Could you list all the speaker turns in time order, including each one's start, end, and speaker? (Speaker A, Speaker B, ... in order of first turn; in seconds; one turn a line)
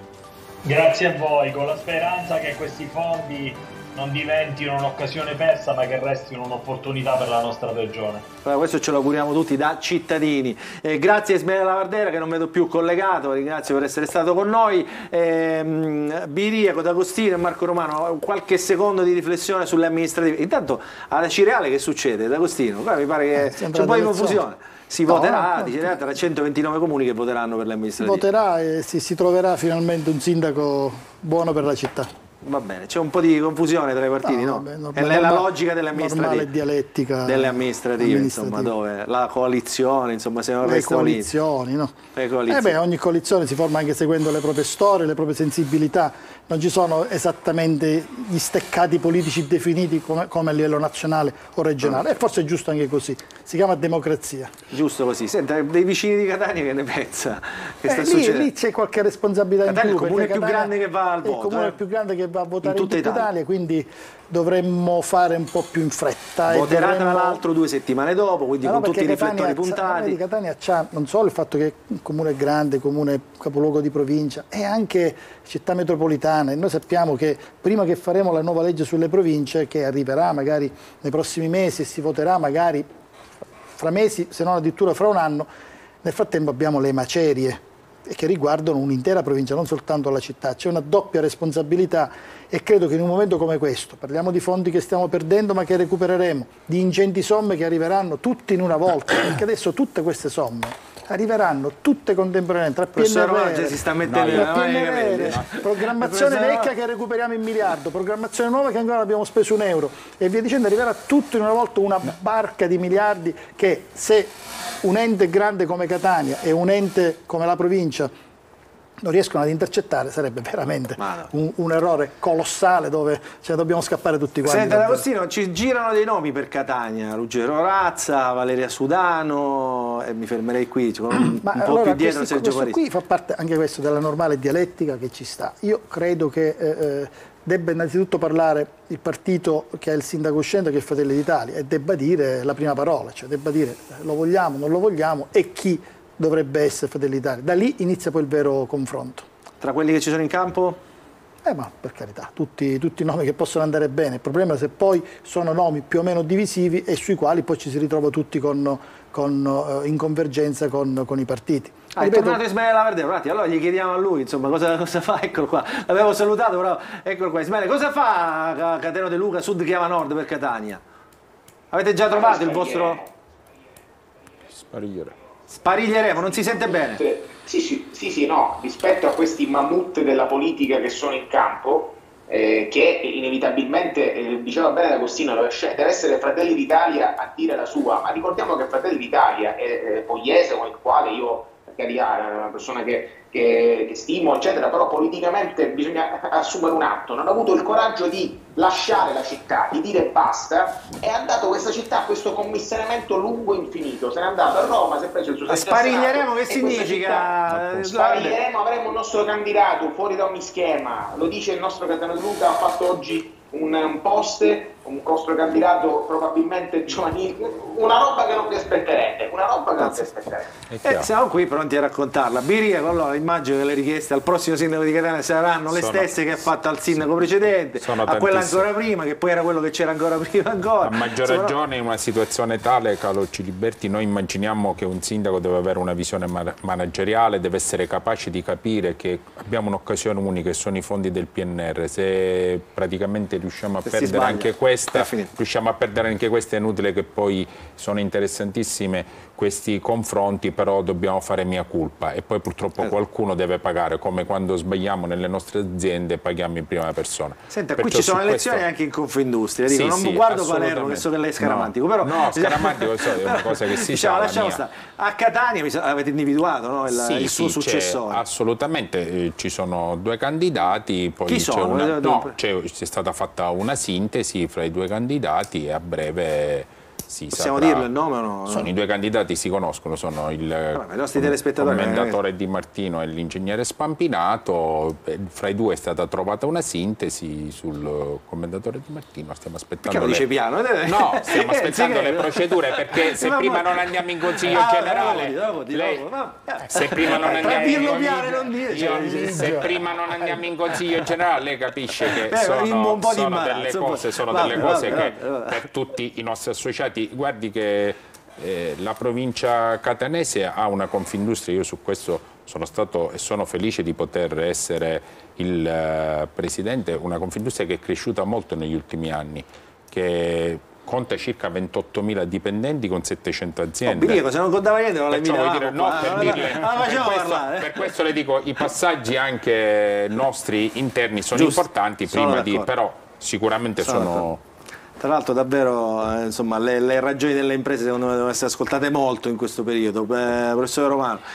Speaker A: 0.6-8.3
Speaker B: 8.4-28.2
Speaker C: 23.3-24.4
Speaker C: 25.1-26.0
Speaker C: 28.0-32.1
Speaker B: 32.4-36.5
Speaker C: 34.2-38.7
Speaker B: 37.2-41.3
Speaker C: 40.6-54.5
Speaker B: 42.1-42.8
Speaker B: 54.7-58.5
Speaker C: 57.9-67.4
Speaker B: 59.6-61.8
Speaker B: 62.6-63.3
Speaker B: 66.5-70.2
Speaker C: 68.6-82.9
Speaker C: 83.8-85.5
Speaker C: 86.0-118.1
Speaker B: 103.0-106.7
Speaker D: 104.0-105.6
Speaker C: 119.0-125.1
Speaker B: 121.0-121.3
Speaker B: 124.4-132.8
Speaker C: 131.2-149.3
Speaker B: 149.6-150.8
Speaker C: 151.4-162.4
Speaker B: 162.0-170.8
Speaker B: 171.7-173.0
Speaker E: 172.1-173.1
Speaker D: 174.6-175.2
Speaker B: 175.5-177.1
Speaker E: 176.9-220.5
Speaker B: 205.5-208.4
Speaker D: 220.7-221.1
Speaker B: 220.8-231.6
Speaker D: 225.7-228.7
Speaker D: 230.8-258.6
Speaker B: 243.8-245.3
Speaker B: 257.5-268.2
Speaker D: 259.7-264.6
Speaker D: 266.9-277.9
Speaker B: 271.3-272.4
Speaker B: 277.3-278.7
Speaker D: 278.5-290.3
Speaker B: 280.7-282.2
Speaker B: 289.8-299.9
Speaker D: 290.9-296.1
Speaker D: 296.6-324.3
Speaker B: 302.0-305.6
Speaker B: 323.9-328.0
Speaker D: 325.1-334.4
Speaker B: 331.3-332.7
Speaker B: 333.8-334.3
Speaker B: 335.0-341.2